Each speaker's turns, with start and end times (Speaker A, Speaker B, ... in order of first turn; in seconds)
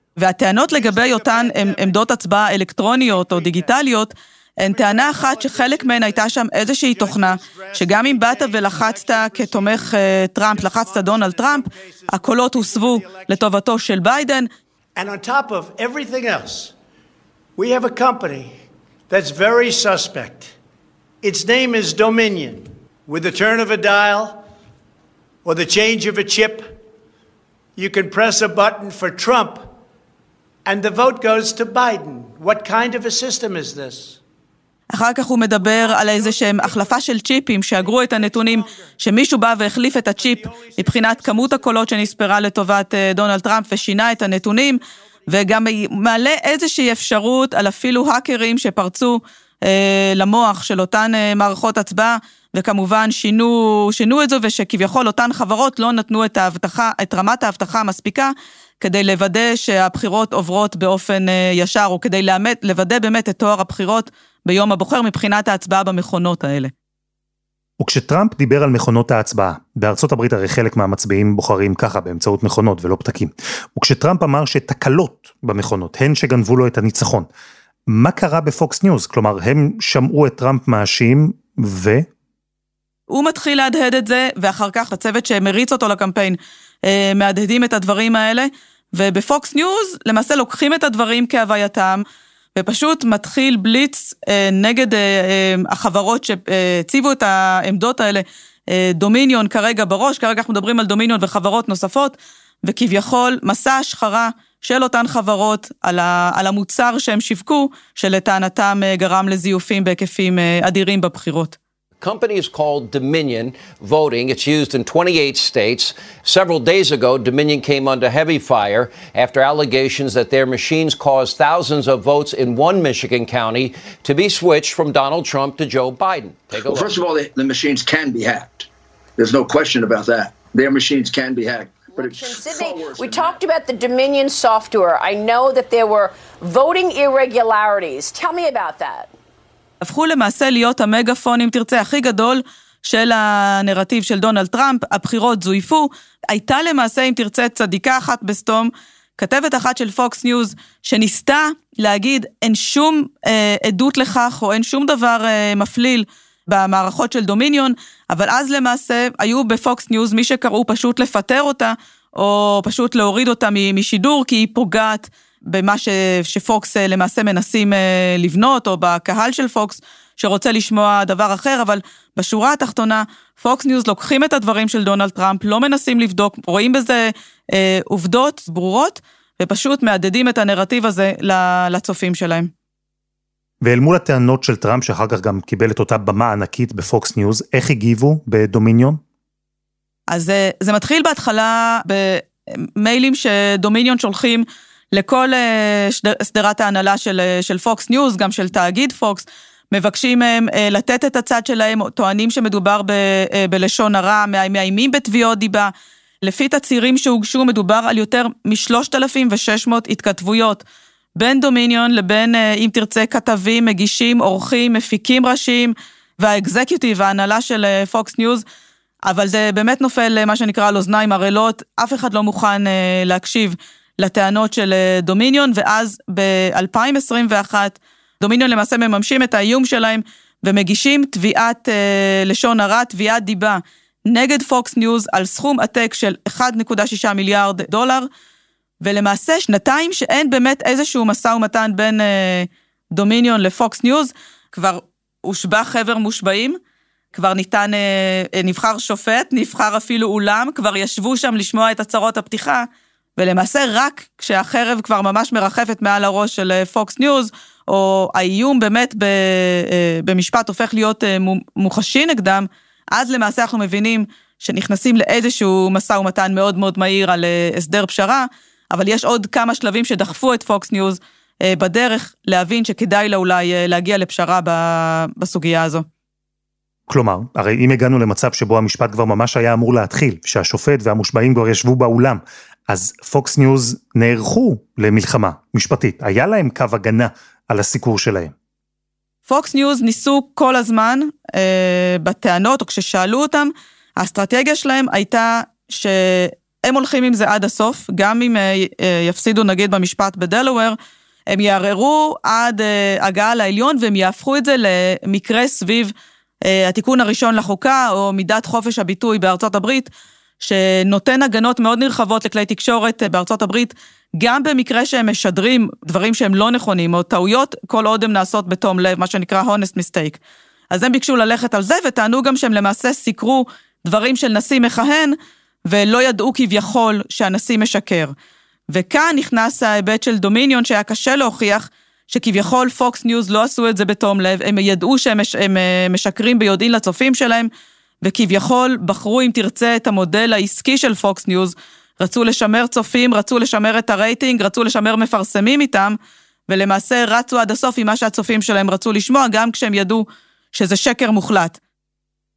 Speaker A: 0.2-14.5, 34.9-66.7, 83.1-92.0, 92.5-111.6, 139.8-182.5, 190.1-205.7, 206.2-210.6, 211.2-218.4, 219.0-238.1, 238.8-246.6, 247.1-275.8, 289.3-300.8, 301.3-305.9, 306.4-320.2, 320.7-325.1, 325.7-328.1, 328.7-337.5, 338.0-345.9, 346.5-351.6
Speaker B: 0.7-2.0, 2.9-3.8, 4.6-13.4, 14.9-16.7, 17.6-18.5, 19.1-20.6, 21.2-24.4, 25.4-26.8, 27.8-29.7, 30.6-34.2, 35.6-37.1, 37.7-39.0, 40.2-42.0
Speaker C: 67.8-77.3, 77.9-82.1, 183.6-189.0, 276.9-288.3
Speaker D: 112.0-126.9
Speaker E: 126.5-133.4
Speaker F: 132.0-139.1